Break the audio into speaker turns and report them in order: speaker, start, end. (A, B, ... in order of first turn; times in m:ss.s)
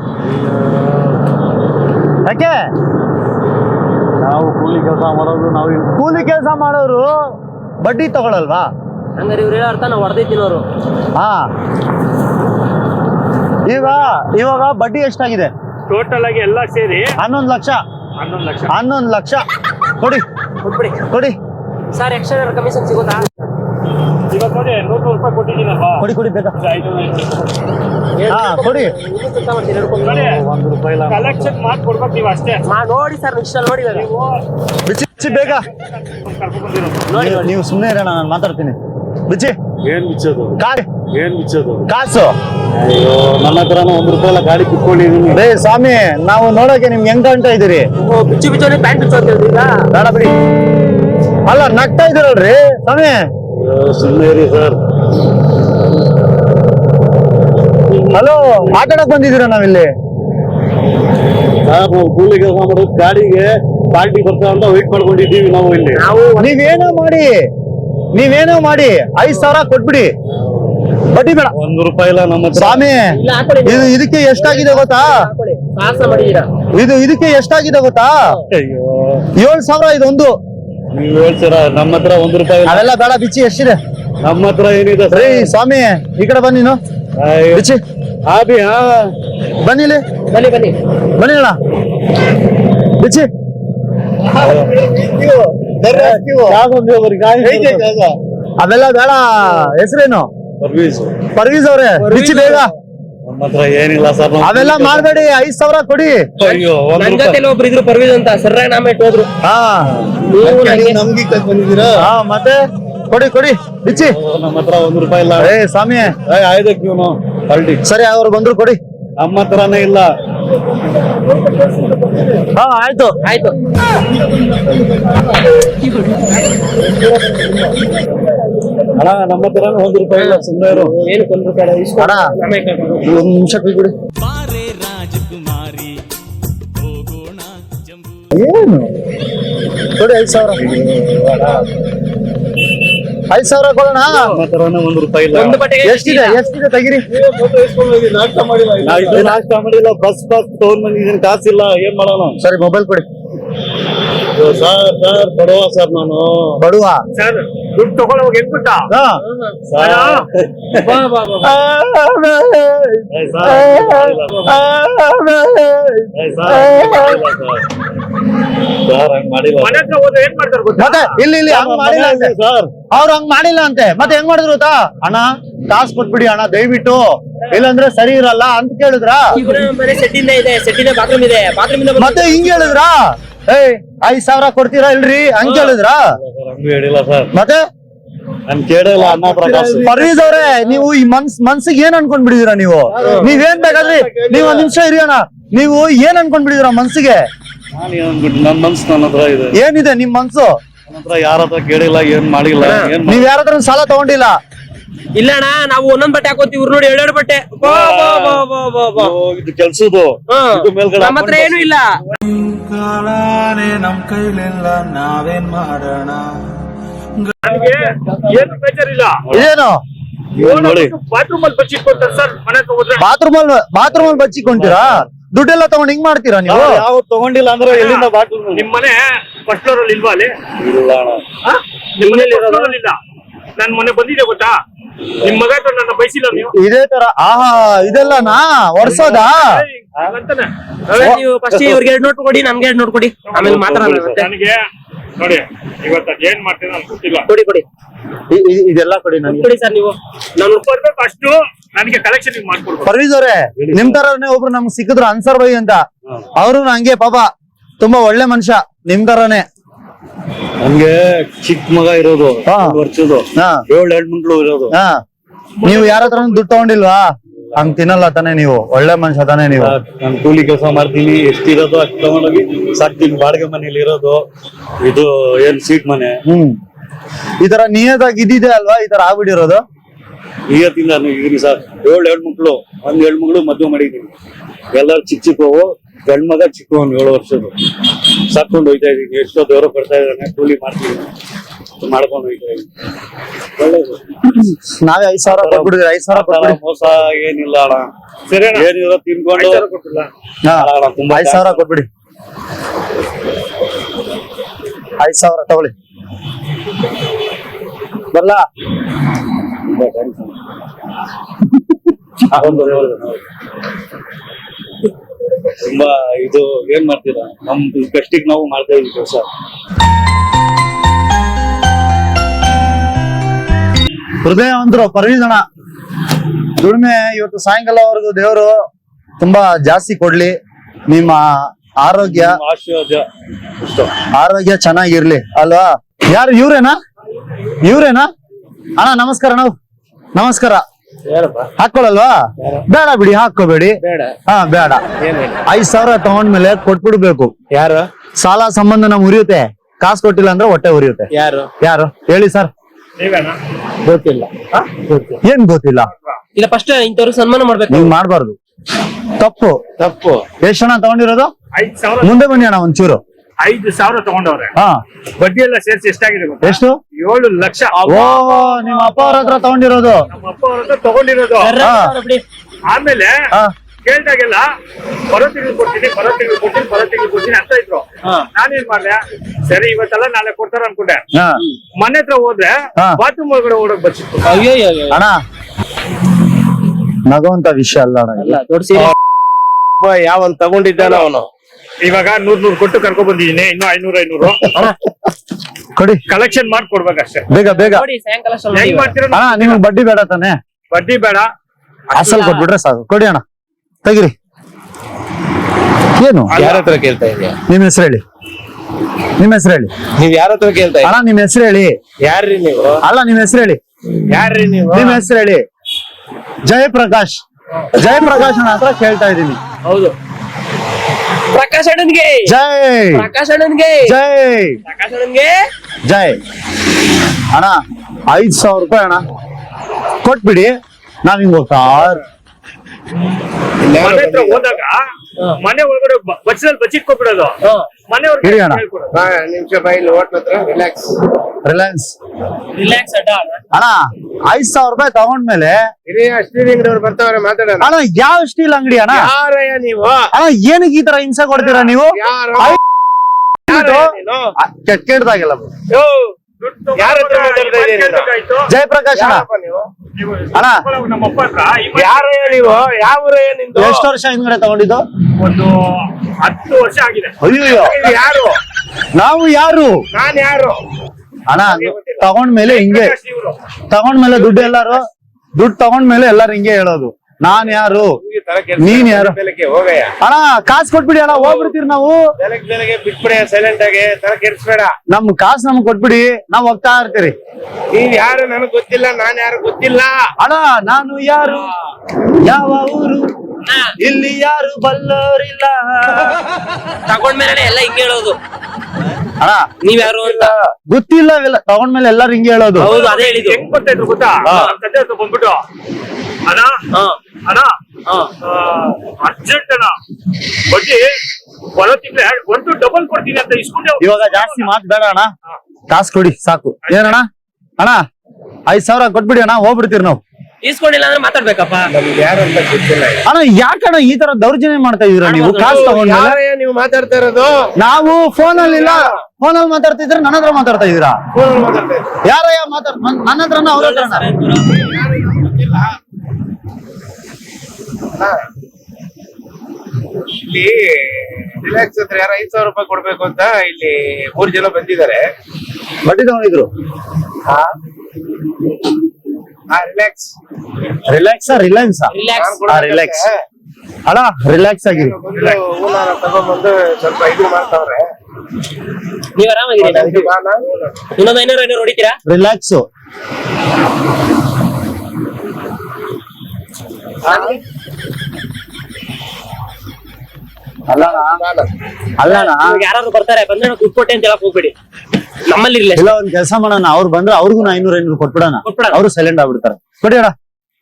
0:00.2-0:01.2 A
0:02.2-0:02.6 B
0:04.2-0:06.2 A
0:06.0-0:07.1 B
0:07.8-0:08.7 B
0:09.2-0:10.6 C
0:11.2-0:11.4 B
0:13.7-0:15.5 B
0:13.7-0:14.1 D
0:15.9-0:17.0 D
0:17.2-0:17.8 B
0:18.2-0:18.7 D
0:18.7-0:19.4 B
0:20.6-0:21.0 C
0:21.1-0:21.3 B
0:21.9-0:23.3 C
0:24.3-0:26.0 D
0:26.0-0:26.6 B
0:26.6-0:27.5 D
0:28.2-0:30.1 C
0:28.3-0:28.9 B
0:30.0-0:31.5 A
0:30.0-0:30.4 D
0:31.1-0:32.6 D
0:32.6-0:34.1 C
0:33.9-0:34.4 D
0:34.8-0:35.7 B
0:35.2-0:37.1 D
0:37.1-0:37.5 C
0:37.1-0:38.8 B
0:39.3-0:39.6 B
0:39.8-0:40.6 A
0:40.6-0:40.9 B
0:41.1-0:41.8 A
0:41.9-0:42.3 B
0:42.7-0:45.4 A
0:45.3-0:47.9 B
0:48.0-0:49.8 C
0:49.9-0:50.3 B
0:51.4-0:53.2 B
0:53.5-0:54.8 A
0:58.1-0:59.9 B
1:01.6-1:06.0 A
1:05.9-1:07.0 C
1:06.4-1:07.4 B
1:08.1-1:10.1 B
1:11.1-1:11.5 B
1:11.5-1:12.8 A
1:12.5-1:15.2 B
1:13.1-1:16.5 C
1:16.7-1:18.2 B
1:18.5-1:19.3 A
1:19.4-1:20.4 B
1:20.9-1:22.8 A
1:22.6-1:23.8 B
1:24.2-1:25.5 A
1:25.1-1:26.8 B
1:27.2-1:27.6 A
1:27.5-1:27.8 B
1:28.2-1:29.1 A
1:29.6-1:30.0 B
1:30.3-1:30.8 C
1:31.2-1:31.6 B
1:32.9-1:33.3 B
1:34.4-1:34.9 A
1:35.0-1:36.6 B
1:35.8-1:38.2 A
1:37.4-1:37.9 B
1:38.6-1:40.3 B
1:40.6-1:41.2 A
1:41.3-1:42.7 B
1:42.0-1:42.7 C
1:43.2-1:45.3 A
1:44.4-1:46.3 B
1:46.4-1:47.4 A
1:46.4-1:49.3 C
1:49.4-1:50.0 B
1:50.3-1:51.0 C
1:50.6-1:52.0 A
1:51.9-1:52.6 B
1:53.1-1:54.2 B
1:53.9-1:55.5 A
1:55.4-1:56.1 B
1:56.2-1:57.8 A
1:57.8-1:58.8 B
1:59.2-2:00.1 A
2:02.5-2:03.2 B
2:03.2-2:03.6 C
2:08.9-2:10.9 A
2:10.2-2:13.1 C
2:12.0-2:12.3 B
2:13.0-2:13.9 B
2:14.2-2:16.0 A
2:16.8-2:17.9 A
2:18.3-2:18.9 B
2:19.9-2:20.7 B
2:20.8-2:21.3 A
2:23.3-2:24.3 B
2:24.3-2:25.6 A
2:25.3-2:26.4 C
2:25.8-2:27.0 B
2:27.1-2:32.4 A
2:28.8-2:29.4 B
2:32.4-2:33.1 B
2:34.4-2:36.6 A
2:36.6-2:37.0 B
2:37.1-2:38.9 D
2:38.9-2:39.2 B
2:39.3-2:39.5 C
2:39.7-2:40.8 A
2:39.8-2:40.2 D
2:40.7-2:41.5 C
2:41.4-2:47.2 B
2:43.1-2:44.5 A
2:46.1-2:47.6 A
2:48.8-2:49.8 A
2:49.6-2:51.2 D
2:50.8-2:59.3 B
2:51.5-2:52.7 A
2:59.3-3:02.8 C
3:02.0-3:06.0 B
3:05.4-3:05.8 C
3:06.2-3:07.3 A
3:07.3-3:07.6 B
3:08.4-3:09.9 A
3:09.0-3:09.9 E
3:09.8-3:17.2 B
3:13.0-3:14.7 E
3:17.7-3:19.6 A
3:19.5-3:20.6 B
3:20.9-3:23.3 A
3:22.6-3:22.9 C
3:23.0-3:24.4 B
3:25.2-3:29.1 C
3:27.6-3:31.7 A
3:30.3-3:32.0 C
3:32.7-3:35.7 A
3:32.9-3:36.2 F
3:37.4-3:39.2 D
3:39.3-3:39.8 B
3:40.4-3:40.9 A
3:40.4-3:43.0 D
3:43.0-3:46.8 B
3:43.9-3:45.0 A
3:46.5-3:48.7 A
3:47.7-3:50.4 D
3:50.6-3:51.2 A
3:52.0-3:53.0 D
3:52.0-3:52.8 C
3:53.6-3:54.6 D
3:55.2-3:56.5 D
3:56.5-3:59.6 B
3:58.8-4:00.5 D
4:00.9-4:04.3 C
4:01.0-4:01.2 B
4:03.3-4:04.6 D
4:03.4-4:04.1 A
4:05.2-4:07.3 D
4:07.3-4:07.6 C
4:08.3-4:09.5 B
4:09.2-4:10.6 C
4:10.6-4:12.9 D
4:12.8-4:15.8 B
4:13.6-4:14.0 A
4:16.4-4:17.3 B
4:17.8-4:19.4 B
4:20.6-4:24.7 A
4:22.4-4:22.8 B
4:23.4-4:23.6 B
4:24.7-4:25.0 B
4:25.6-4:26.7 D
4:25.6-4:29.7 B
4:29.6-4:34.2 A
4:34.8-4:36.2 A
4:36.3-4:36.6 B
4:37.4-4:39.6 B
4:40.5-4:44.1 A
4:44.7-4:51.1 A
4:51.8-4:52.7 A
4:53.6-4:54.0 A
4:54.3-4:56.6 B
4:55.2-4:57.9 A
4:58.3-4:58.7 D
4:58.5-4:59.6 A
4:59.3-5:00.1 D
5:00.4-5:01.9 B
5:00.5-5:01.7 A
5:05.0-5:05.7 B
5:08.1-5:08.4 B
5:09.8-5:10.3 A
5:12.3-5:13.2 A
5:12.3-5:12.8 B
5:15.6-5:19.3 A
5:24.2-5:25.4 B
5:26.6-5:28.6 B
5:29.2-5:30.4 B
5:30.9-5:32.4 B
5:32.0-5:33.1 A
5:33.6-5:33.9 A
5:34.1-5:36.8 B
5:37.6-5:38.1 B
5:38.8-5:39.5 B
5:40.1-5:40.6 B
5:41.1-5:41.5 E
5:41.6-5:44.8 B
5:43.8-5:44.1 E
5:45.0-5:45.4 E
5:45.4-5:47.3 B
5:47.5-5:47.9 E
5:48.2-5:51.1 B
5:51.1-5:51.5 E
5:51.6-5:52.5 B
5:53.0-5:53.4 D
5:53.8-5:54.3 E
5:55.2-5:55.9 B
5:56.3-5:57.9 C
5:57.7-5:58.4 B
5:59.2-5:59.6 B
5:59.8-6:00.2 E
6:00.4-6:01.3 B
6:01.5-6:02.5 D
6:02.0-6:03.0 B
6:03.4-6:04.5 D
6:05.2-6:09.4 D
6:06.4-6:06.8 B
6:07.8-6:10.0 B
6:10.1-6:11.6 D
6:11.4-6:12.2 C
6:11.6-6:11.9 B
6:12.7-6:13.2 D
6:13.8-6:14.4 D
6:15.1-6:21.0 D
6:21.1-6:21.4 B
6:21.8-6:24.4 D
6:24.2-6:25.0 C
6:24.9-6:25.2 B
6:27.1-6:28.4 B
6:28.2-6:28.9 C
6:29.8-6:31.3 E
6:31.8-6:34.7 D
6:35.8-6:36.0 B
6:36.1-6:37.3 D
6:37.3-6:37.8 B
6:37.4-6:39.0 C
6:38.5-6:39.6 D
6:39.1-6:40.4 B
6:40.7-6:41.3 D
6:41.9-6:43.2 B
6:42.0-6:42.5 C
6:43.8-6:44.1 B
6:46.0-6:46.4 B
6:46.3-6:47.4 E
6:47.5-6:48.0 B
6:49.2-6:49.7 B
6:50.0-6:50.9 E
6:50.8-6:51.7 B
6:52.0-6:52.8 E
6:52.8-6:53.6 B
6:54.1-6:55.0 E
6:54.7-6:55.4 B
6:56.4-6:57.2 B
6:57.7-6:59.4 B
7:01.3-7:02.3 C
7:02.2-7:03.1 B
7:02.9-7:04.0 C
7:03.8-7:04.6 B
7:04.7-7:05.4 C
7:05.8-7:06.2 B
7:07.3-7:09.0 B
7:10.0-7:12.0 B
7:13.6-7:14.5 E
7:13.8-7:14.8 D
7:15.4-7:17.3 D
7:17.9-7:18.9 D
7:18.2-7:18.6 B
7:18.9-7:20.9 E
7:21.4-7:21.9 B
7:22.5-7:23.4 C
7:23.5-7:25.6 B
7:25.9-7:27.7 E
7:27.6-7:29.1 B
7:28.9-7:30.1 E
7:30.1-7:32.6 B
7:31.4-7:32.6 E
7:33.5-7:35.5 B
7:33.5-7:34.3 E
7:35.7-7:36.1 E
7:36.4-7:38.5 D
7:36.8-7:38.1 E
7:38.5-7:39.2 B
7:38.9-7:39.7 E
7:40.0-7:42.6 D
7:40.3-7:40.6 B
7:41.8-7:43.8 E
7:43.5-7:44.8 B
7:45.2-7:47.1 D
7:47.2-7:47.8 B
7:47.5-7:48.4 E
7:48.9-7:49.8 B
7:49.9-7:50.6 E
7:51.3-7:53.0 B
7:51.4-7:52.0 E
7:52.4-7:53.4 D
7:53.7-7:54.8 B
7:54.2-7:54.5 E
7:55.4-7:57.9 B
7:57.6-7:59.9 E
7:58.6-7:59.2 B
8:00.0-8:02.0 B
8:01.1-8:01.5 E
8:02.2-8:04.7 E
8:04.9-8:07.1 B
8:07.7-8:10.0 E
8:10.2-8:11.5 B
8:12.2-8:13.0 B
8:13.8-8:16.2 B
8:16.9-8:18.2 C
8:19.2-8:19.4 B
8:19.6-8:20.3 C
8:19.8-8:20.5 E
8:20.7-8:22.7 B
8:22.6-8:23.4 C
8:22.7-8:25.4 D
8:24.2-8:24.5 C
8:26.3-8:26.6 D
8:26.7-8:27.0 C
8:27.2-8:27.6 D
8:28.2-8:29.8 D
8:30.4-8:30.9 D
8:31.6-8:34.5 D
8:33.8-8:35.1 B
8:35.7-8:37.1 B
8:36.6-8:37.0 D
8:38.5-8:40.0 B
8:40.4-8:41.7 C
8:41.7-8:43.0 E
8:43.0-8:46.2 B
8:45.0-8:45.7 C
8:45.4-8:47.5 E
8:47.6-8:51.0 B
8:48.3-8:49.0 E
8:51.1-8:51.9 E
8:52.0-8:54.1 B
8:53.5-8:54.7 C
8:54.6-8:55.8 E
9:00.2-9:05.0 E
9:05.8-9:06.5 B
9:07.3-9:07.5 E
9:09.5-9:10.1 E
9:10.8-9:11.9 B
9:11.9-9:12.4 C
9:12.1-9:13.2 E
9:12.5-9:13.1 B
9:13.8-9:15.0 B
9:14.7-9:17.9 E
9:19.2-9:20.1 C
9:19.6-9:20.7 E
9:21.0-9:22.0 C
9:22.0-9:22.6 B
9:27.0-9:27.4 C
9:27.1-9:27.4 E
9:30.7-9:31.2 B
9:30.8-9:31.5 E
9:32.0-9:32.6 B
9:32.0-9:34.5 C
9:35.2-9:35.9 C
9:35.8-9:40.1 B
9:38.4-9:38.8 C